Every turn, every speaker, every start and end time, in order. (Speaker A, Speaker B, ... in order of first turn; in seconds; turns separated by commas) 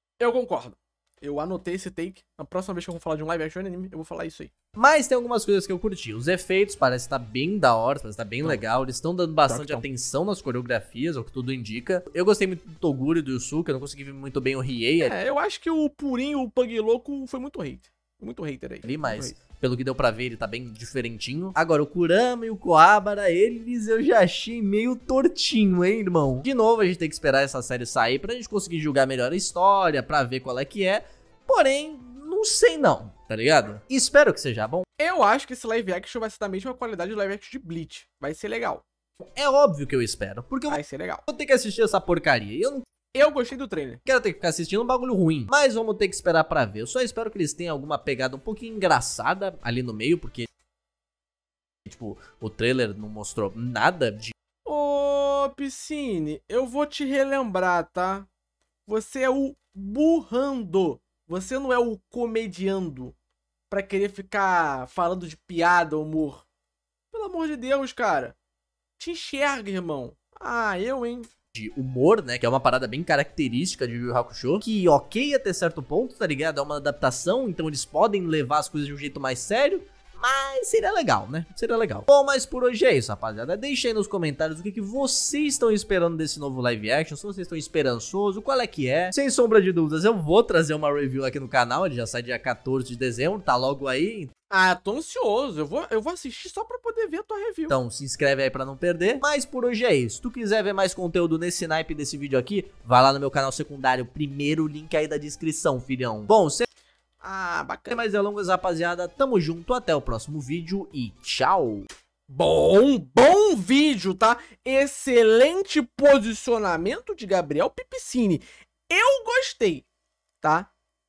Speaker A: 0.2-4.5, Speaker B: 4.8-15.2, Speaker A: 9.5-9.8, Speaker A: 15.0-19.4, Speaker B: 18.8-34.9, Speaker A: 35.0-38.9, Speaker B: 39.2-42.9, Speaker A: 40.7-41.2, Speaker A: 43.1-44.0, Speaker B: 44.0-50.5, Speaker B: 51.9-54.3, Speaker A: 54.6-58.3, Speaker A: 58.9-63.1, Speaker A: 63.7-66.5, Speaker A: 67.1-68.4, Speaker A: 69.0-71.3, Speaker B: 71.6-94.3, Speaker A: 94.5-97.8, Speaker B: 97.7-106.7, Speaker A: 107.2-108.0, Speaker B: 107.9-111.9, Speaker A: 112.3-119.8, Speaker A: 120.4-120.7